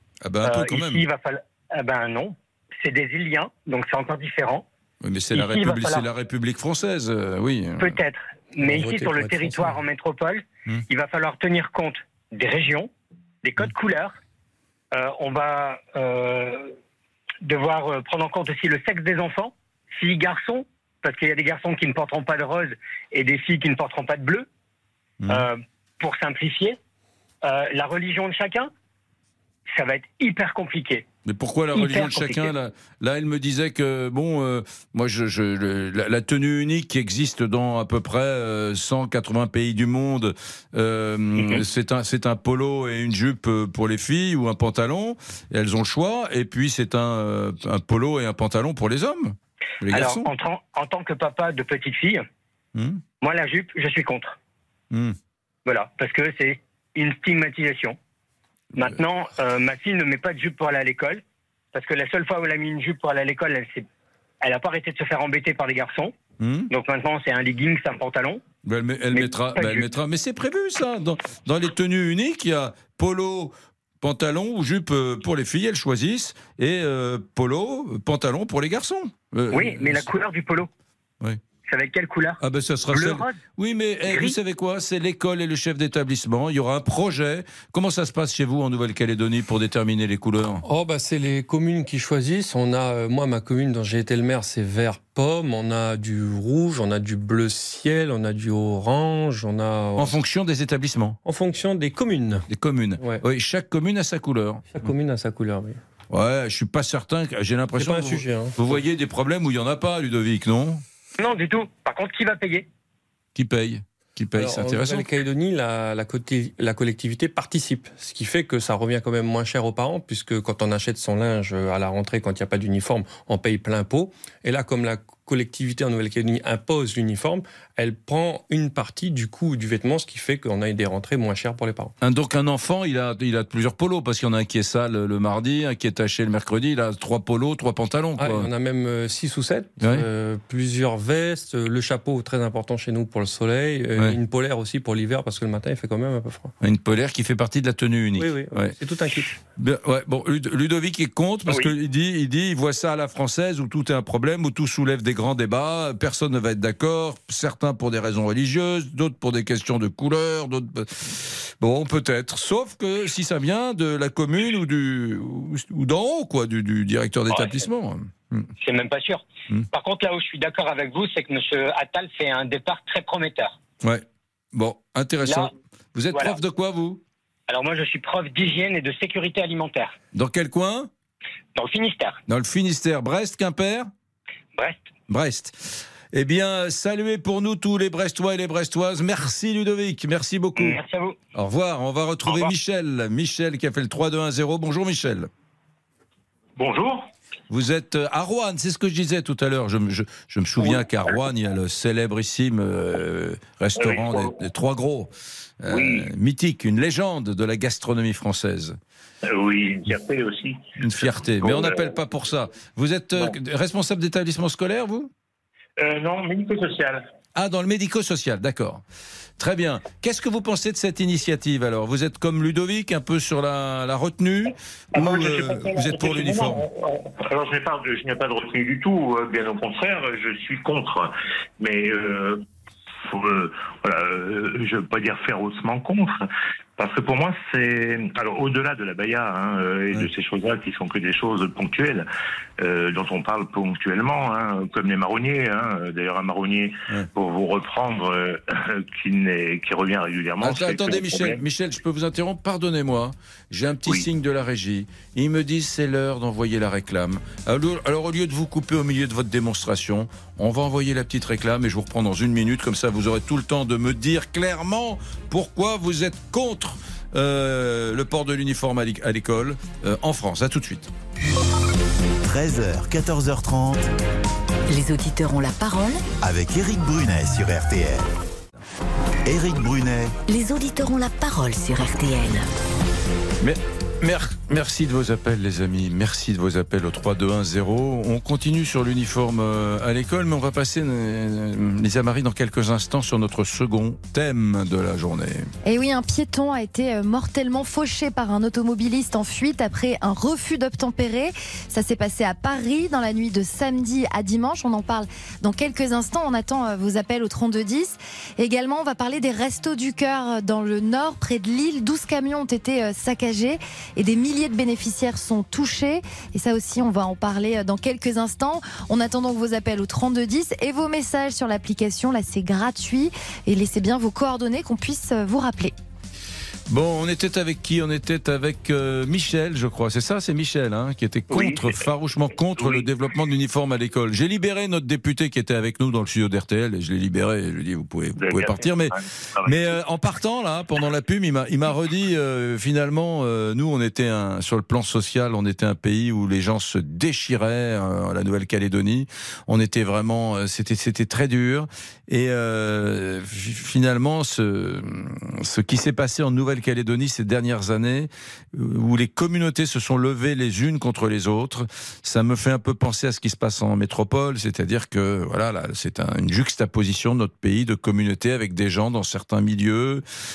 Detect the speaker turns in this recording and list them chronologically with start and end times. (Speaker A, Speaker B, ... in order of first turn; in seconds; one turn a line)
Speaker A: 0.2-1.0
Speaker B: 0.4-4.7
Speaker A: 5.0-8.0
Speaker B: 5.3-6.0
Speaker B: 7.8-12.9
Speaker A: 8.6-9.7
Speaker B: 13.4-14.1
Speaker B: 14.9-16.7
Speaker B: 17.4-24.5
Speaker A: 25.2-25.5
Speaker B: 25.3-26.8
Speaker B: 27.4-28.7
Speaker B: 29.7-31.0
Speaker A: 31.2-50.3
Speaker B: 31.7-32.5
Speaker B: 49.9-52.2
Speaker A: 52.7-53.0
Speaker B: 53.2-54.4
Speaker A: 54.9-55.1
Speaker B: 55.6-58.0
Speaker B: 58.8-61.2
Speaker B: 61.7-63.9
Speaker B: 64.4-66.1
Speaker A: 66.4-66.7
Speaker B: 66.7-68.4
Speaker A: 68.6-80.1
Speaker B: 69.1-69.9
Speaker B: 79.5-80.7
Speaker B: 81.7-82.4
Speaker A: 82.4-90.6
Speaker B: 82.9-83.3
Speaker B: 84.1-84.3
Speaker C: 90.6-100.1
Speaker A: 100.0-101.2
Speaker C: 101.2-102.5
Speaker A: 102.5-104.9
Speaker C: 104.7-105.8
Speaker A: 106.1-110.8
Speaker C: 107.8-108.8
Speaker B: 111.2-112.7
Speaker A: 113.3-115.0
Speaker C: 114.3-131.9
Speaker A: 132.0-138.5
Speaker C: 138.2-146.5
Speaker A: 146.6-148.7
Speaker C: 148.2-149.3
Speaker A: 149.3-168.5
Speaker B: 167.3-167.6
Speaker B: 168.6-173.6
Speaker A: 173.8-177.0
Speaker B: 175.2-175.5
Speaker B: 176.1-176.4
Speaker B: 177.5-179.9
Speaker A: 180.1-180.9
Speaker B: 181.5-182.2
Speaker A: 182.3-183.9
Speaker B: 184.5-184.8
Speaker A: 185.1-190.8
Speaker B: 190.6-191.1
Speaker A: 191.3-195.3
Speaker D: 196.6-197.1
Speaker A: 197.5-205.1
Speaker D: 203.8-204.4
Speaker A: 205.6-208.8
Speaker D: 205.7-206.1
Speaker D: 209.2-211.9
Speaker A: 210.8-215.1
Speaker D: 215.8-217.0
Speaker A: 217.3-218.8
Speaker A: 219.4-226.6
Speaker D: 224.9-232.4
Speaker D: 233.1-242.0
Speaker D: 242.6-251.4
Speaker A: 250.4-270.9
Speaker E: 272.2-273.9
Speaker F: 274.7-276.0
Speaker E: 276.2-278.1
Speaker E: 279.2-280.1
Speaker F: 280.3-282.5
Speaker A: 283.4-295.4
Speaker G: 295.6-325.7
Speaker A: 326.7-370.0
Speaker D: 331.3-331.9
Speaker D: 332.6-332.9
Speaker D: 338.2-339.8